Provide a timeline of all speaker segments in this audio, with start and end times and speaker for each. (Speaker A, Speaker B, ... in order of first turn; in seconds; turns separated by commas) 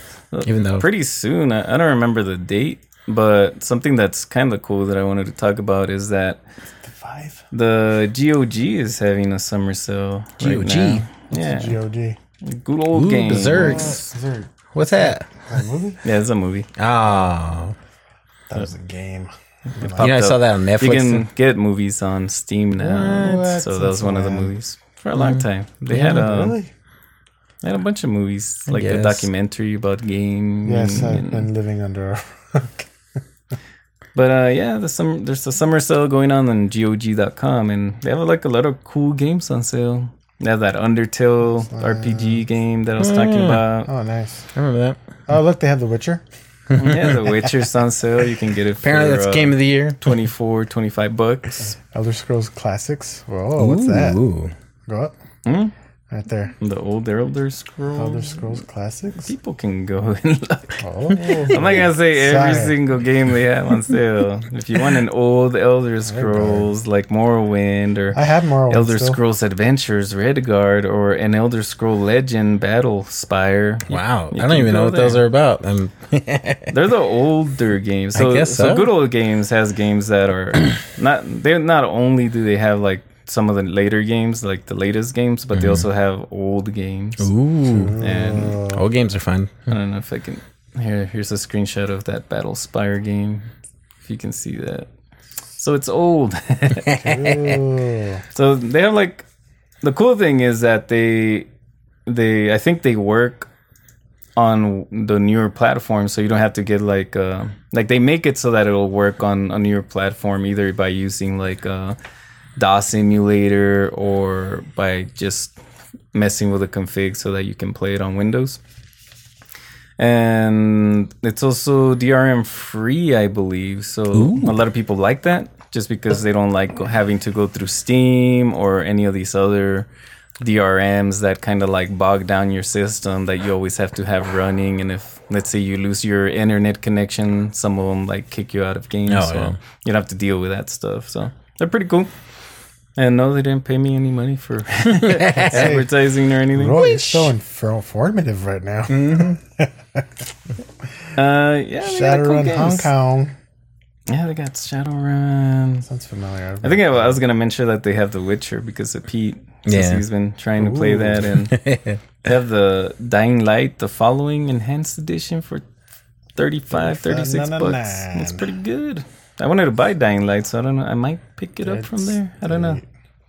Speaker A: 0.3-6.4, Speaker B: 0.5-0.9, Speaker C: 6.8-7.4, Speaker A: 7.5-11.8, Speaker B: 10.4-11.0, Speaker C: 11.3-12.2, Speaker A: 12.4-14.1, Speaker B: 12.9-14.0, Speaker C: 13.5-16.0, Speaker B: 14.7-15.3, Speaker A: 16.0-16.7, Speaker B: 16.8-17.8, Speaker C: 18.5-20.1, Speaker A: 19.8-26.6, Speaker B: 20.0-21.2, Speaker B: 22.8-23.5, Speaker C: 23.0-24.5, Speaker B: 25.1-25.4, Speaker C: 25.9-26.7, Speaker A: 27.6-31.5, Speaker B: 28.7-29.3, Speaker C: 30.6-32.9, Speaker A: 34.1-43.9, Speaker C: 41.7-42.5, Speaker B: 43.0-43.6, Speaker C: 43.9-44.5, Speaker B: 44.5-45.0, Speaker C: 45.3-46.2, Speaker B: 46.7-47.2, Speaker A: 46.8-51.8, Speaker B: 48.8-50.2, Speaker C: 51.9-54.2, Speaker B: 53.6-54.5, Speaker C: 54.9-55.1, Speaker A: 55.5-55.7, Speaker C: 56.1-56.5, Speaker A: 56.6-58.6, Speaker C: 58.0-59.3, Speaker A: 59.2-75.2, Speaker C: 60.8-62.8, Speaker B: 61.3-61.6, Speaker C: 66.1-66.7, Speaker C: 68.1-69.2, Speaker B: 73.9-76.7, Speaker A: 76.7-87.3, Speaker B: 78.2-78.9, Speaker B: 85.5-85.9, Speaker B: 87.2-88.0, Speaker C: 87.7-88.8, Speaker A: 88.0-88.6, Speaker B: 88.7-89.7, Speaker A: 89.7-93.5, Speaker A: 94.0-94.9, Speaker A: 95.6-96.9, Speaker B: 96.9-97.6, Speaker C: 96.9-98.2, Speaker A: 98.3-99.3, Speaker A: 99.8-101.5, Speaker A: 102.1-103.5, Speaker A: 104.4-112.0, Speaker A: 112.6-115.6, Speaker A: 116.1-118.6, Speaker A: 120.0-129.9, Speaker B: 124.1-124.6, Speaker A: 130.4-142.1, Speaker B: 139.1-139.6, Speaker A: 143.0-146.8, Speaker B: 145.0-145.7, Speaker C: 145.2-150.0, Speaker B: 146.8-147.3, Speaker B: 148.9-149.4, Speaker A: 151.2-152.9, Speaker C: 151.8-153.3, Speaker A: 154.1-155.9, Speaker C: 155.9-157.2, Speaker A: 156.6-161.6, Speaker B: 159.7-160.0, Speaker C: 160.6-161.3, Speaker B: 161.5-162.0, Speaker A: 162.2-165.6, Speaker A: 166.4-172.8, Speaker C: 166.7-168.5, Speaker C: 171.6-172.8